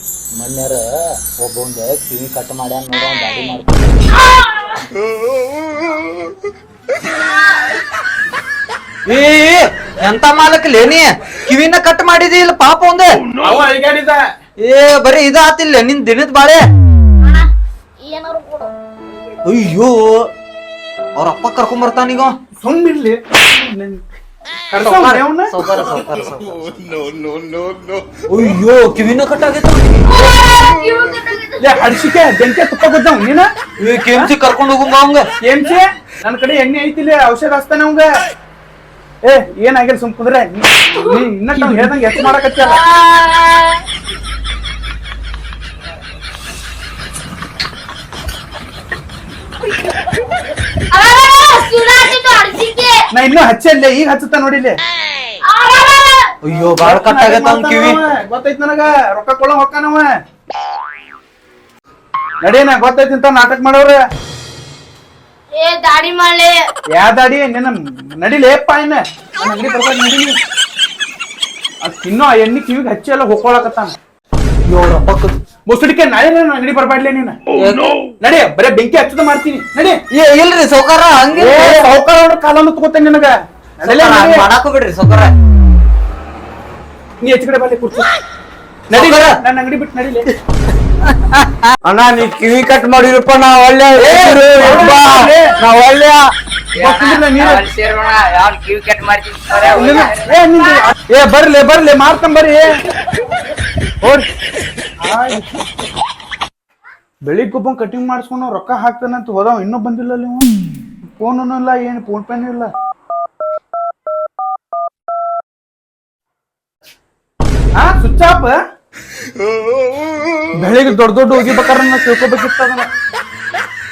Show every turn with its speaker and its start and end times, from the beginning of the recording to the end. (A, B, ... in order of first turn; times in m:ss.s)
0:00.4-0:00.8 A
0:01.4-0:04.1 A
0:07.2-0:07.7 B
0:09.0-0:13.1 A
0:13.4-0:14.2 C
0:14.6-0:16.6 A
0:18.0-0:18.7 B
0:19.4-0:20.0 A
0:21.2-0:22.3 A
0:22.6-0:24.0 C
0:24.7-0:25.5 C
0:24.8-0:27.3 A
0:28.1-0:30.4 A
0:30.1-0:31.8 B
0:31.6-0:33.5 C
0:33.8-0:35.2 A
0:35.4-0:38.1 C
0:39.2-0:42.8 C
0:42.6-0:43.8 B
0:50.9-0:53.0 B
0:53.1-0:54.8 C
0:55.4-0:56.3 B
0:56.4-0:58.0 A
0:56.6-1:00.1 C
1:02.4-1:04.0 C
1:05.5-1:06.6 B
1:06.9-1:10.4 C
1:11.8-1:13.9 C
1:14.7-1:15.4 A
1:15.7-1:17.4 C
1:17.6-1:18.0 A
1:18.2-1:20.0 C
1:20.1-1:21.9 A
1:21.3-1:24.5 C
1:23.8-1:25.3 A
1:27.2-1:28.1 C
1:28.9-1:30.3 C
1:28.9-1:29.4 A
1:31.2-1:31.5 A
1:31.8-1:36.2 D
1:34.0-1:35.6 C
1:35.7-1:36.1 A
1:36.8-1:37.6 C
1:36.8-1:40.1 E
1:39.6-1:42.7 C
1:44.0-1:44.3 C
1:45.0-1:45.4 C
1:47.2-1:50.5 C
1:51.2-1:52.7 C
1:57.8-1:58.6 C
2:00.6-2:02.9 C